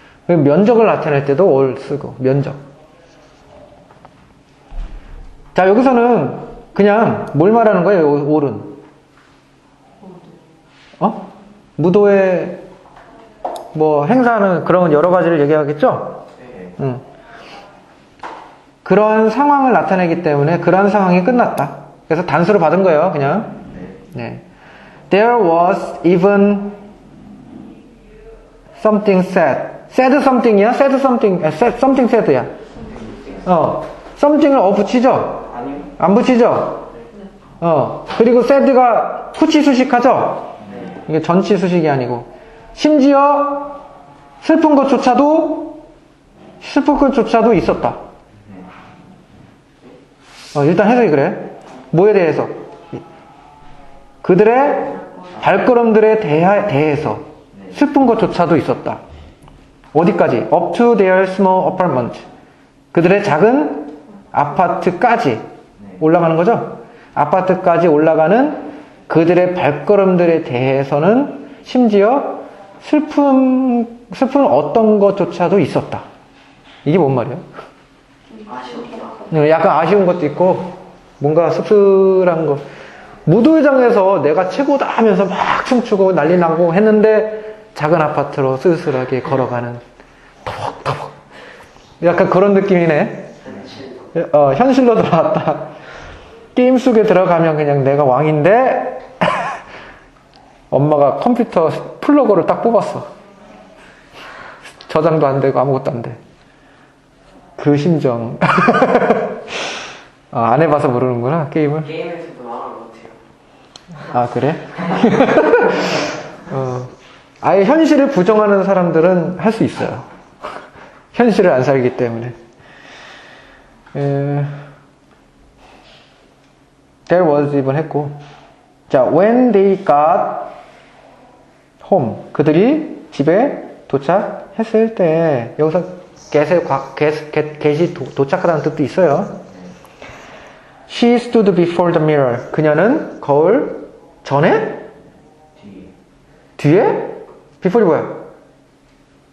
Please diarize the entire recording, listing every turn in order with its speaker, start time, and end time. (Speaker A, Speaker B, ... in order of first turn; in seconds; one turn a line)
Speaker A: 0.3-2.6
Speaker A: 5.5-8.8
Speaker A: 11.0-12.6
Speaker A: 13.7-16.2
Speaker A: 16.8-17.1
Speaker A: 18.9-24.4
Speaker B: 23.7-24.0
Speaker A: 25.1-26.8
Speaker A: 28.8-32.5
Speaker B: 32.9-33.3
Speaker A: 33.4-36.9
Speaker B: 35.5-35.9
Speaker A: 37.6-43.8
Speaker B: 40.6-41.0
Speaker A: 44.4-45.8
Speaker A: 46.6-48.0
Speaker A: 50.5-53.0
Speaker A: 54.2-59.0
Speaker A: 59.9-62.3
Speaker A: 62.9-65.4
Speaker A: 66.0-76.0
Speaker A: 76.8-77.5
Speaker C: 78.4-79.3
Speaker A: 79.3-82.7
Speaker A: 83.2-89.8
Speaker A: 90.5-91.2
Speaker A: 92.0-93.4
Speaker C: 93.5-94.1
Speaker A: 94.1-95.7
Speaker A: 96.5-99.6
Speaker A: 100.7-103.1
Speaker A: 104.7-106.2
Speaker A: 107.6-109.6
Speaker A: 110.3-111.9
Speaker C: 111.8-113.2
Speaker A: 114.0-120.1
Speaker A: 121.1-122.3
Speaker A: 123.9-124.7
Speaker A: 127.1-128.2
Speaker A: 128.9-130.6
Speaker A: 131.8-139.4
Speaker A: 140.9-144.8
Speaker B: 145.6-145.9
Speaker A: 146.6-148.2